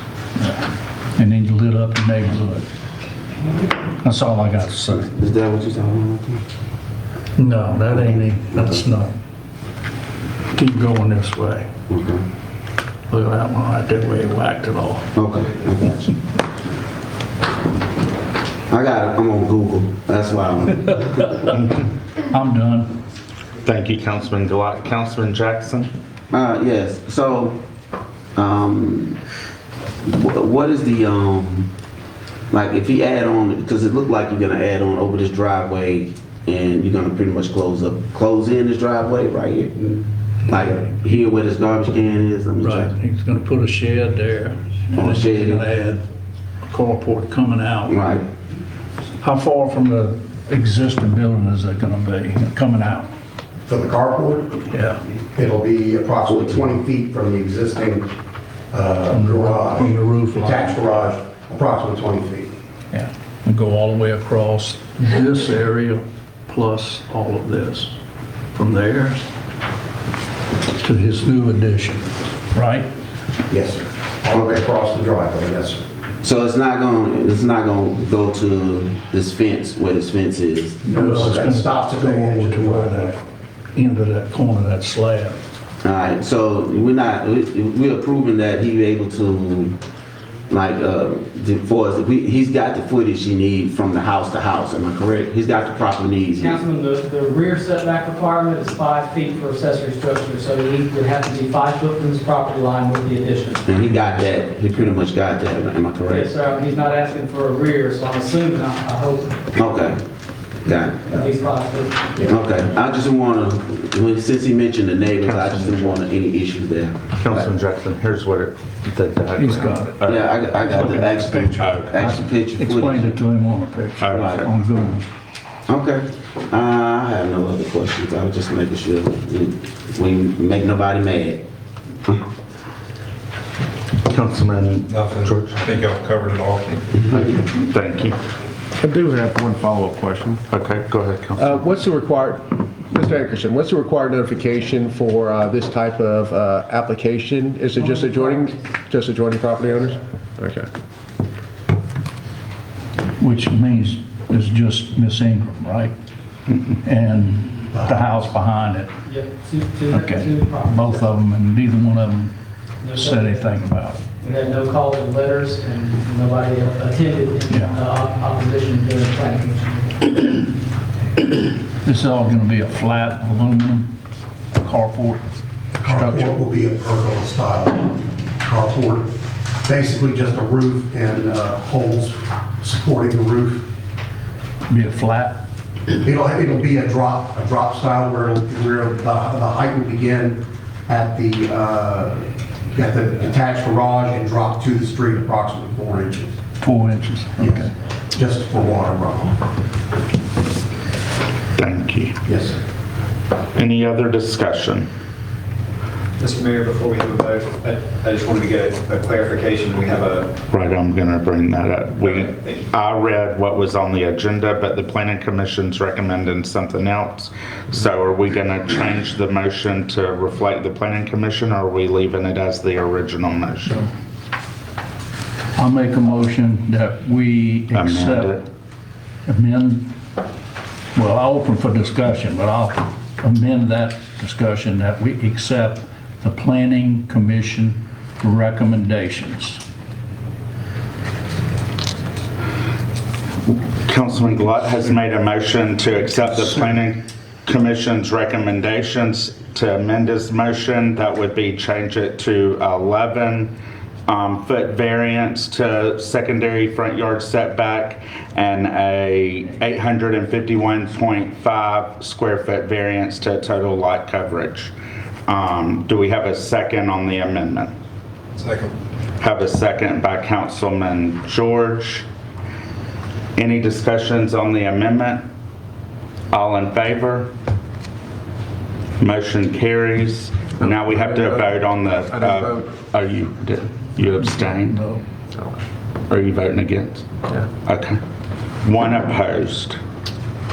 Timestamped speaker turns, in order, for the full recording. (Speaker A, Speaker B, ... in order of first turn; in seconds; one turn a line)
Speaker A: 0.4-2.7
Speaker A: 4.0-5.1
Speaker B: 4.9-6.4
Speaker A: 7.4-9.2
Speaker B: 8.0-8.7
Speaker A: 10.5-11.7
Speaker B: 11.9-12.2
Speaker A: 13.1-15.1
Speaker B: 15.2-16.1
Speaker B: 18.7-21.4
Speaker A: 22.3-23.0
Speaker C: 23.6-25.9
Speaker B: 26.3-27.7
Speaker B: 28.4-29.2
Speaker B: 30.0-31.7
Speaker B: 32.5-42.9
Speaker A: 42.6-46.0
Speaker B: 45.0-45.7
Speaker A: 46.7-48.0
Speaker B: 47.9-48.2
Speaker A: 49.2-53.1
Speaker D: 53.7-54.6
Speaker A: 54.7-55.0
Speaker D: 55.4-58.1
Speaker D: 58.7-62.5
Speaker A: 59.1-60.8
Speaker A: 62.9-68.0
Speaker A: 68.5-69.2
Speaker A: 70.7-72.9
Speaker D: 73.5-75.8
Speaker B: 76.2-80.8
Speaker A: 80.8-83.2
Speaker D: 80.9-83.1
Speaker A: 83.7-85.4
Speaker B: 85.8-89.8
Speaker B: 90.5-96.6
Speaker E: 96.4-103.7
Speaker B: 103.7-106.3
Speaker E: 106.0-109.5
Speaker B: 109.6-110.0
Speaker B: 110.6-111.3
Speaker E: 111.1-112.4
Speaker B: 112.2-117.1
Speaker C: 115.2-116.0
Speaker C: 117.2-120.3
Speaker A: 119.4-120.0
Speaker B: 120.0-123.1
Speaker A: 120.7-125.1
Speaker C: 121.6-121.9
Speaker C: 124.0-124.5
Speaker B: 124.1-124.5
Speaker B: 125.7-131.4
Speaker C: 134.1-135.6
Speaker F: 134.9-136.9
Speaker C: 137.5-138.2
Speaker G: 138.8-140.4
Speaker C: 140.5-141.4
Speaker G: 141.4-150.7
Speaker E: 148.0-148.5
Speaker A: 153.2-155.9
Speaker A: 156.8-158.9
Speaker D: 157.7-158.2
Speaker E: 159.1-161.1
Speaker A: 159.9-162.3
Speaker E: 162.8-163.6
Speaker A: 162.9-164.0
Speaker E: 164.2-170.5
Speaker A: 167.5-167.8
Speaker A: 171.8-173.9
Speaker A: 174.5-175.2
Speaker A: 175.8-176.3
Speaker D: 175.8-179.1
Speaker D: 179.6-183.7
Speaker A: 184.7-185.4
Speaker D: 186.0-196.3
Speaker A: 196.6-197.7
Speaker D: 197.4-199.5
Speaker C: 201.6-202.2
Speaker D: 202.3-202.6
Speaker C: 203.6-204.9
Speaker H: 206.7-209.0
Speaker C: 210.5-223.9
Speaker A: 225.6-228.4
Speaker C: 227.7-228.4
Speaker A: 229.3-229.9
Speaker A: 230.9-239.6
Speaker C: 243.9-253.5
Speaker A: 246.1-246.8
Speaker C: 254.1-264.7
Speaker C: 265.3-267.7
Speaker F: 268.4-268.7
Speaker C: 269.2-272.1
Speaker C: 273.4-275.3
Speaker C: 276.3-277.3
Speaker C: 279.0-284.8
Speaker G: 280.7-281.4
Speaker G: 282.1-282.6
Speaker A: 284.2-285.0
Speaker C: 286.1-287.1
Speaker C: 287.6-288.0
Speaker C: 288.6-289.8